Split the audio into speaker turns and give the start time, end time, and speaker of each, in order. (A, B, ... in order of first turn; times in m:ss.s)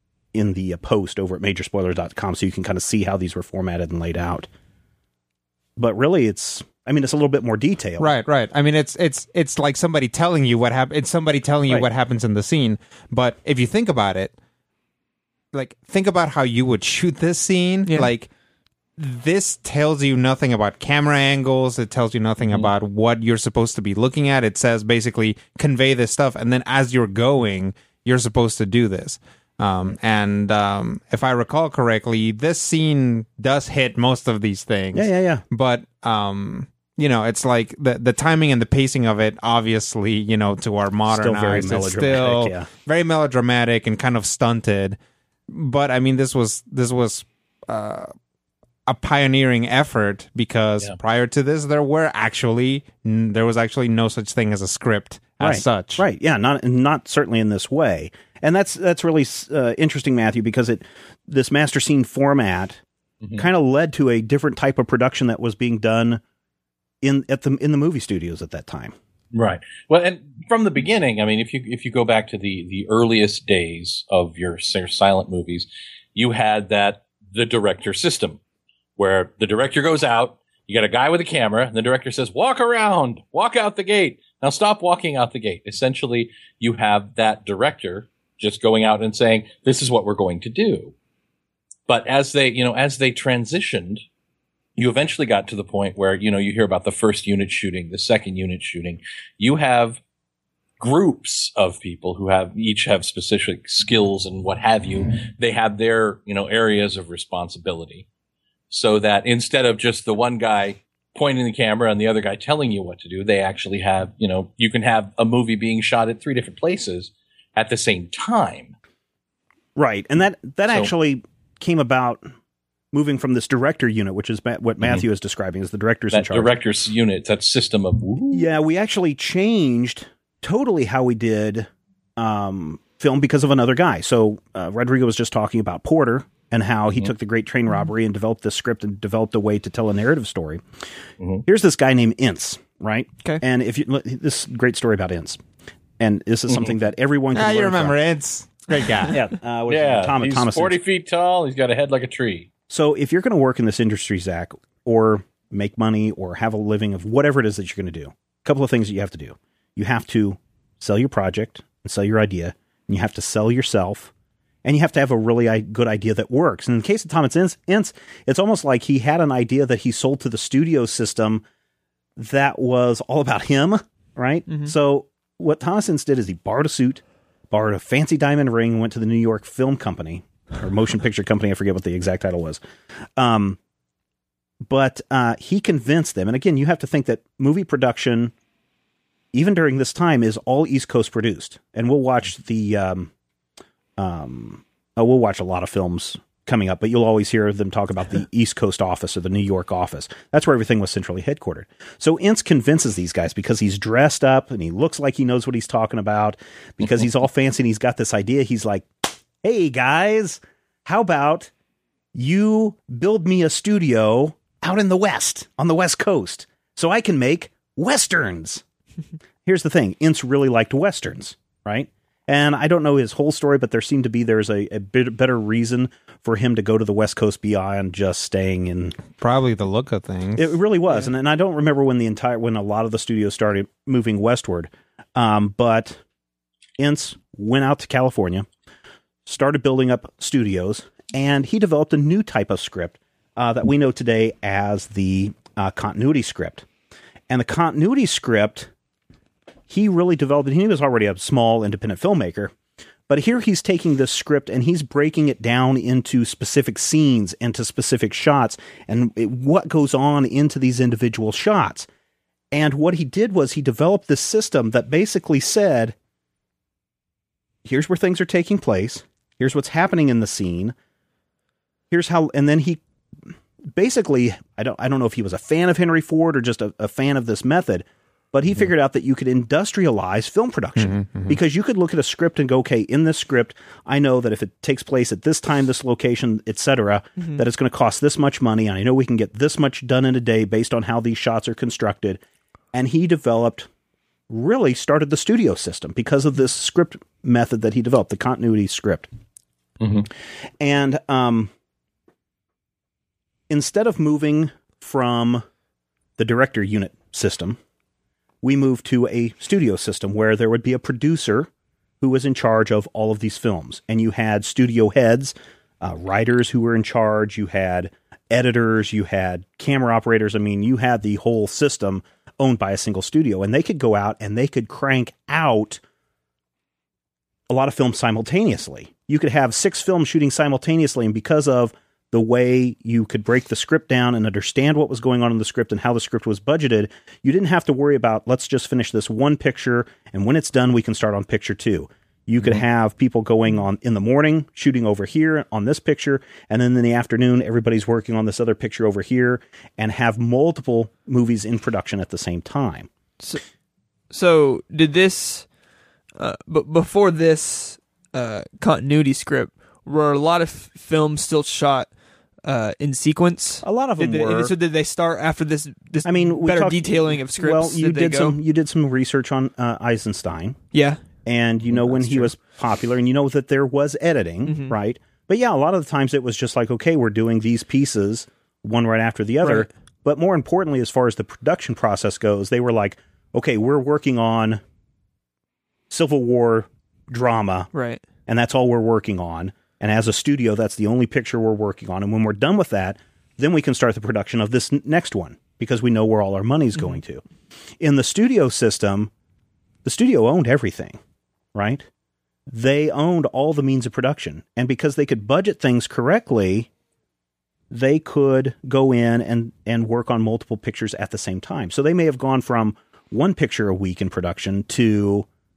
0:00.3-0:04.5 A
0:05.8-0:08.1 A
0:08.0-0:14.3 B
0:15.5-0:18.3 B
0:17.8-0:18.1 C
0:19.0-0:45.0 B
0:34.9-0:35.4 A
0:41.1-0:42.7 A
0:45.5-0:48.1 B
0:48.8-0:56.1 B
0:55.4-1:02.8 A
1:03.4-1:06.2 A
1:07.0-1:08.9 A
1:09.3-1:18.4 D
1:19.0-1:30.9 D
1:31.9-1:34.0 D
1:34.8-1:40.0 D
1:40.8-1:48.0 D
1:48.7-1:58.7 D
1:59.8-2:02.3 A
2:02.9-2:06.5 A
2:06.1-2:08.5 D
2:08.3-2:20.6 A
2:21.2-2:21.4 D
2:21.4-2:25.4 A
2:26.0-2:28.0 A
2:27.3-2:29.2 B
2:29.1-2:30.8 A
2:29.7-2:32.5 D
2:32.7-2:44.1 A
2:44.6-2:51.4 A
2:52.2-3:02.6 A
2:54.5-2:54.7 C
3:03.2-3:03.6 A
3:04.6-3:08.3 A
3:09.3-3:13.1 A
3:14.0-3:31.5 A
3:32.1-3:38.6 A
3:39.4-3:49.0 A
3:49.1-3:50.6 B
3:50.4-3:56.0 A
3:56.8-3:58.5 A
3:59.2-4:06.6 A
4:07.3-4:08.7 A
4:09.7-4:12.5 A
4:13.1-4:21.9 A
4:22.5-4:25.9 A
4:27.6-4:30.7 A
4:31.9-4:32.8 A
4:33.7-4:52.2 A
4:40.8-4:41.4 B
4:47.2-4:47.4 C
4:52.7-4:53.7 A
4:54.3-4:59.1 A
4:59.8-5:00.1 D
5:00.6-5:01.5 A
5:03.5-5:05.4 A
5:06.2-5:07.6 A
5:08.4-5:11.5 A
5:12.0-5:25.8 A
5:27.5-5:52.9 A
5:54.1-5:55.5 C
5:56.2-6:01.9 C
6:02.4-6:08.4 C
6:03.6-6:04.5 A
6:06.0-6:10.6 A
6:10.7-6:11.0 C
6:11.2-6:24.6 A
6:11.7-6:12.3 C
6:14.4-6:14.8 C
6:19.4-6:19.7 C
6:25.9-6:27.7 A
6:27.7-6:28.0 C
6:28.2-6:37.2 A
6:37.8-6:39.1 A
6:39.8-6:41.0 A
6:41.5-6:41.8 A
6:42.5-6:46.7 A
6:47.7-6:55.3 A